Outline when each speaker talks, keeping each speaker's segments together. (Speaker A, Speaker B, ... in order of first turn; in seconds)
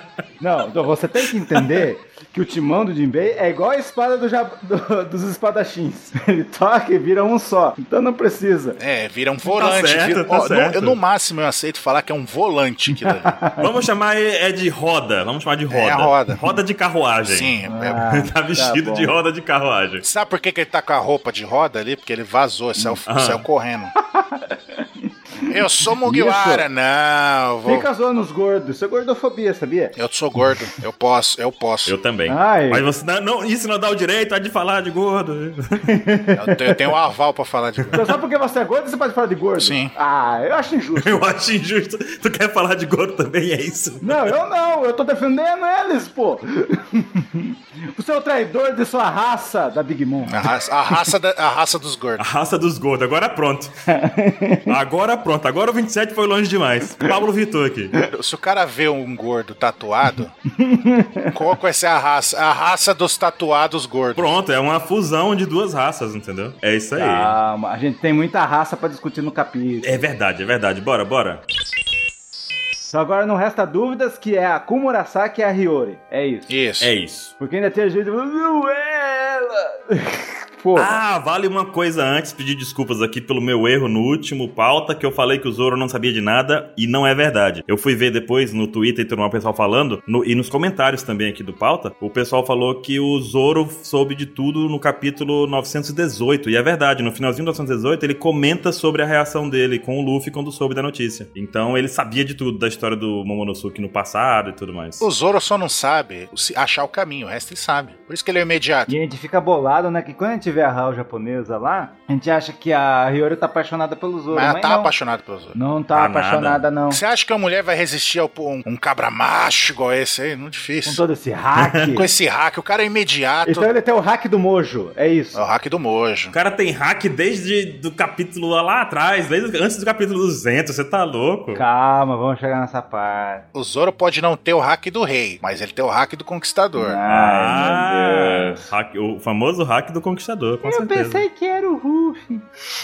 Speaker A: 0.4-8.8, 12.9-13.7, 17.6-19.1, 24.1-26.6, 27.6-29.9, 32.3-32.9, 35.8-36.9, 37.9-41.3, 44.0-50.5, 53.9-54.7, 60.5-61.4, 66.9-70.0, 72.8-76.5, 77.4-81.0, 108.9-114.9, 115.5-117.0, 120.8-122.0, 123.4-125.4, 131.5-133.4, 136.8-138.7, 140.6-142.4
Speaker B: 8.8-13.4, 15.7-16.4, 17.3-18.0, 20.0-23.9, 25.5-27.9, 29.9-31.9, 36.4-38.1, 39.6-39.9, 50.2-52.2, 58.1-60.3, 61.3-64.3, 76.5-76.9, 105.0-108.9, 114.3-115.5, 116.9-121.0, 121.9-123.7, 125.3-126.3, 133.5-137.0
Speaker C: 9.4-11.0, 13.6-20.0, 23.1-23.4, 31.9-35.8, 41.0-44.3, 52.2-53.7, 54.7-57.9, 64.1-67.3, 69.8-71.4, 76.8-77.3, 80.7-105.1, 115.9-116.6, 121.5-122.0, 126.3-131.6, 137.1-141.2